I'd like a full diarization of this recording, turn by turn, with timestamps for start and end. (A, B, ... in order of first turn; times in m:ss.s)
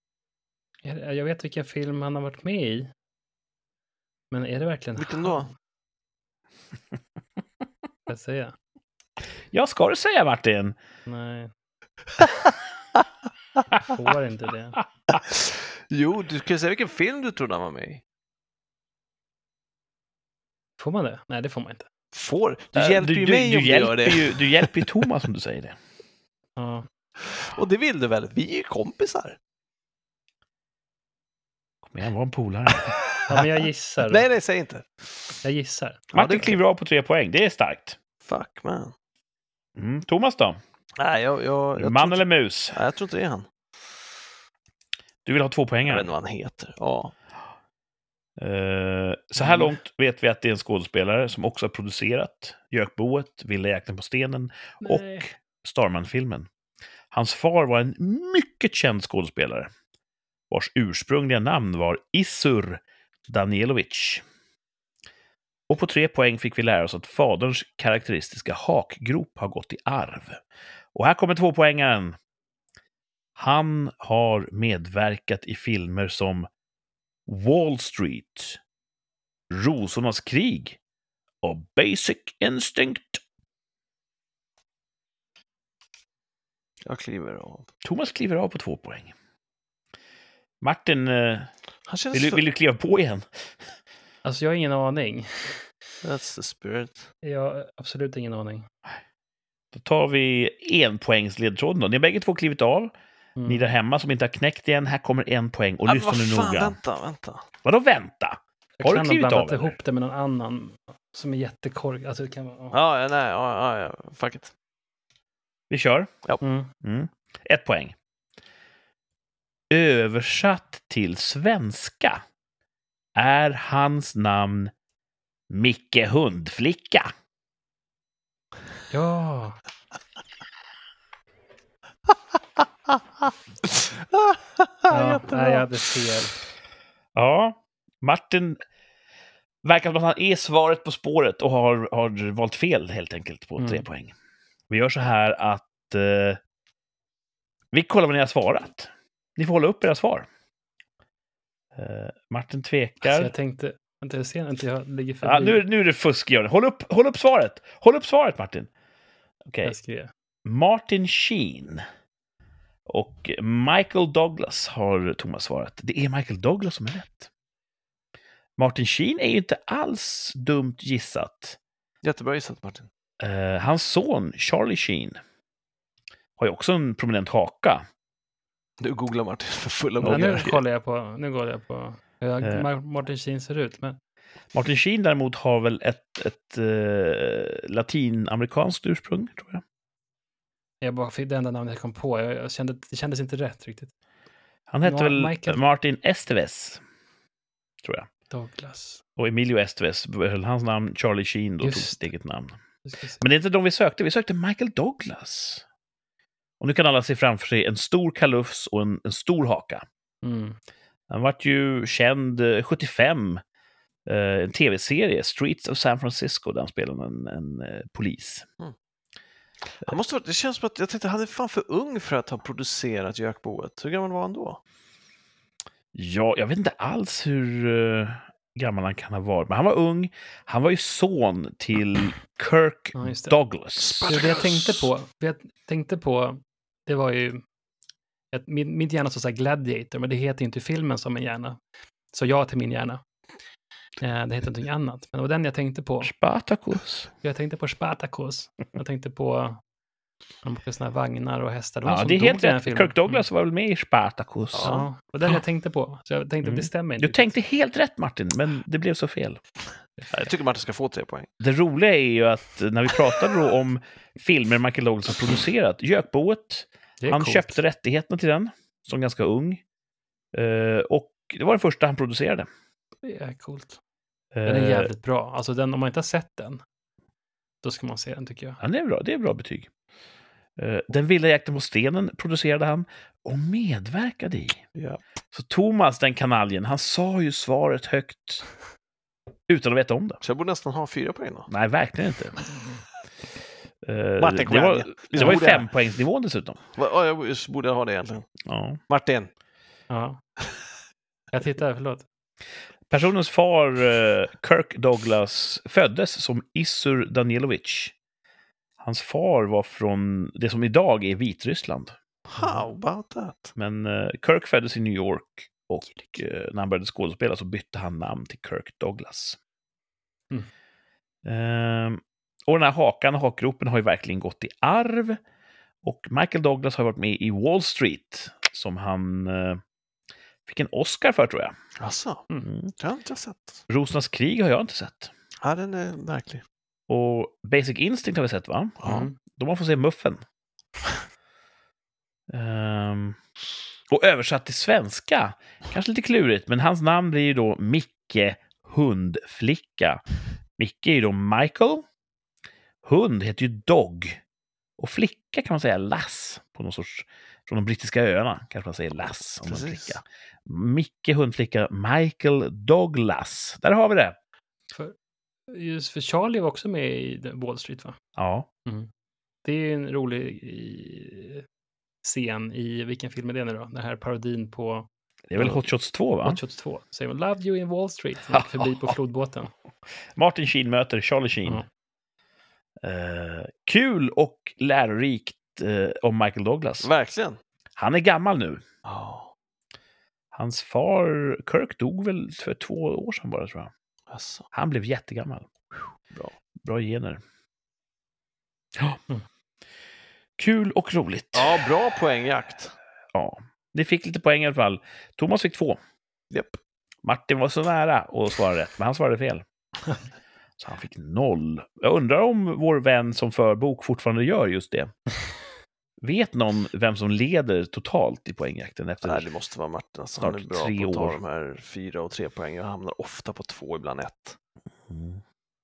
0:00.8-0:02.9 A
0:04.3-0:05.5 A
0:05.0-0:05.5 B
0:08.1-0:08.5 A
0:09.5-0:10.8 C
0:11.0-0:11.5 A
0:13.8-0:14.8 A
0:15.2-0:18.0 B
0:20.8-0:21.9 A
0:22.1-0:25.1 B
0:22.7-0:25.8 C
0:26.6-0:26.9 A
0:27.2-0:29.4 B
0:31.8-0:33.0 C
0:32.8-0:35.0 B
0:33.3-0:34.2 A
0:35.4-0:36.1 A
0:36.1-0:36.6 B
0:36.1-0:38.0 C
0:38.2-0:38.9 B
0:39.8-0:40.6 C
0:41.0-0:43.5 B
0:41.8-0:42.8 C
0:45.2-0:46.1 C
0:45.8-0:47.1 B
0:48.4-0:56.5 C
0:49.4-0:49.7 A
0:54.8-0:55.2 A
0:57.1-0:59.7 C
1:00.5-1:04.2 C
1:05.7-1:10.4 C
1:10.9-1:12.2 C
1:13.4-1:16.5 C
1:17.3-1:18.6 C
1:19.5-1:20.8 C
1:21.4-1:23.2 C
1:26.8-1:27.7 B
1:27.8-1:29.1 C
1:30.6-1:31.5 C
1:31.8-1:32.4 B
1:32.1-1:33.2 C
1:34.2-1:35.6 A
1:36.0-1:37.1 B
1:37.2-1:38.6 A
1:39.7-1:42.9 C
1:43.4-1:43.7 A
1:43.4-1:46.8 C
1:45.8-1:47.4 B
1:47.6-1:49.8 C
1:48.8-1:52.8 A
1:52.7-1:54.5 B
1:55.7-1:56.1 C
1:56.4-1:56.7 A
1:56.8-1:58.0 C
1:59.7-2:02.2 C
2:03.2-2:04.7 C
2:05.5-2:07.1 C
2:08.9-2:09.6 A
2:13.6-2:15.6 B
2:14.9-2:16.4 A
2:17.1-2:18.6 C
2:19.6-2:24.1 C
2:23.6-2:23.8 A
2:24.7-2:26.4 C
2:27.7-2:30.3 C
2:31.7-2:33.3 C
2:33.0-2:35.6 A
2:35.2-2:38.7 C
2:39.5-2:39.7 C
2:39.6-2:40.1 A
2:40.4-2:41.8 C
2:42.9-2:47.3 C
2:48.6-2:51.6 C
2:52.0-2:52.9 B
2:53.2-2:55.2 C
2:56.4-2:57.8 C
2:58.8-3:00.6 B
3:00.0-3:00.6 C
3:00.0-3:04.0 A
3:04.5-3:09.6 C
3:10.8-3:13.9 A
3:14.7-3:16.8 C
3:14.8-3:15.6 A
3:17.8-3:18.1 C
3:18.3-3:19.0 A
3:19.2-3:22.6 C
3:21.6-3:22.1 A
3:22.8-3:23.2 A
3:23.2-3:25.6 C
3:26.6-3:29.8 C
3:30.2-3:30.6 A
3:31.1-3:33.4 C
3:34.0-3:38.4 C
3:39.8-3:44.6 B
3:45.9-3:54.1 C
3:53.0-3:53.3 A
3:53.8-3:54.9 B
3:54.0-3:57.4 A
3:58.3-4:01.6 A
4:02.1-4:03.0 A
4:04.0-4:06.1 A
4:06.0-4:07.1 C
4:07.2-4:09.6 A
4:10.4-4:13.2 A
4:11.8-4:14.8 C
4:14.5-4:14.8 B
4:14.6-4:17.3 A
4:16.4-4:19.4 C
4:20.0-4:20.2 A
4:20.1-4:21.3 B
4:21.4-4:29.6 C
4:27.0-4:27.6 A
4:30.3-4:32.5 C
4:33.0-4:33.8 A
4:34.3-4:34.9 C
4:34.4-4:36.6 A
4:37.6-4:38.6 A
4:38.6-4:39.7 C
4:40.6-4:44.6 C
4:44.7-4:45.0 B
4:45.3-4:48.5 C
4:49.5-4:50.2 C
4:50.2-4:51.5 B
4:51.5-4:52.4 C
4:53.8-4:56.6 C
4:54.2-4:55.7 B
4:56.7-4:58.3 B
4:58.4-4:58.8 C
4:58.9-4:59.3 B
4:59.9-5:00.2 A
5:01.3-5:02.0 A
5:02.9-5:07.9 C
5:08.8-5:12.0 C
5:12.2-5:13.5 B
5:13.6-5:19.4 C
5:21.2-5:25.2 C
5:25.8-5:29.6 C
5:30.4-5:31.6 C
5:31.8-5:33.6 B
5:32.4-5:32.7 C
5:33.7-5:35.1 C
5:35.4-5:36.4 B
5:36.9-5:40.2 C
5:38.8-5:39.1 B
5:38.8-5:39.1 A
5:42.3-5:43.2 C
5:43.9-5:50.0 C
5:50.6-5:51.8 C
5:52.8-5:54.2 C
5:54.8-6:04.2 C
5:59.4-6:00.0 B
6:05.5-6:08.0 A
6:08.2-6:08.5 C
6:09.4-6:11.4 A
6:12.0-6:15.6 A
6:15.3-6:16.4 C
6:16.2-6:19.5 A
6:18.3-6:18.9 C
6:20.2-6:21.6 C
6:22.8-6:26.9 C
6:26.8-6:27.4 B
6:27.8-6:28.6 C
6:28.8-6:29.3 B
6:30.3-6:33.7 C
6:34.1-6:34.5 B
6:34.5-6:35.5 C
6:36.6-6:37.2 C
6:40.4-6:41.7 C
6:41.3-6:42.7 B
6:43.1-6:45.8 C
6:46.3-6:46.6 B
6:47.0-6:49.4 C
6:50.6-6:54.9 C
6:56.0-6:59.3 C
6:59.0-7:04.4 B
7:00.2-7:01.2 C
7:04.9-7:05.2 C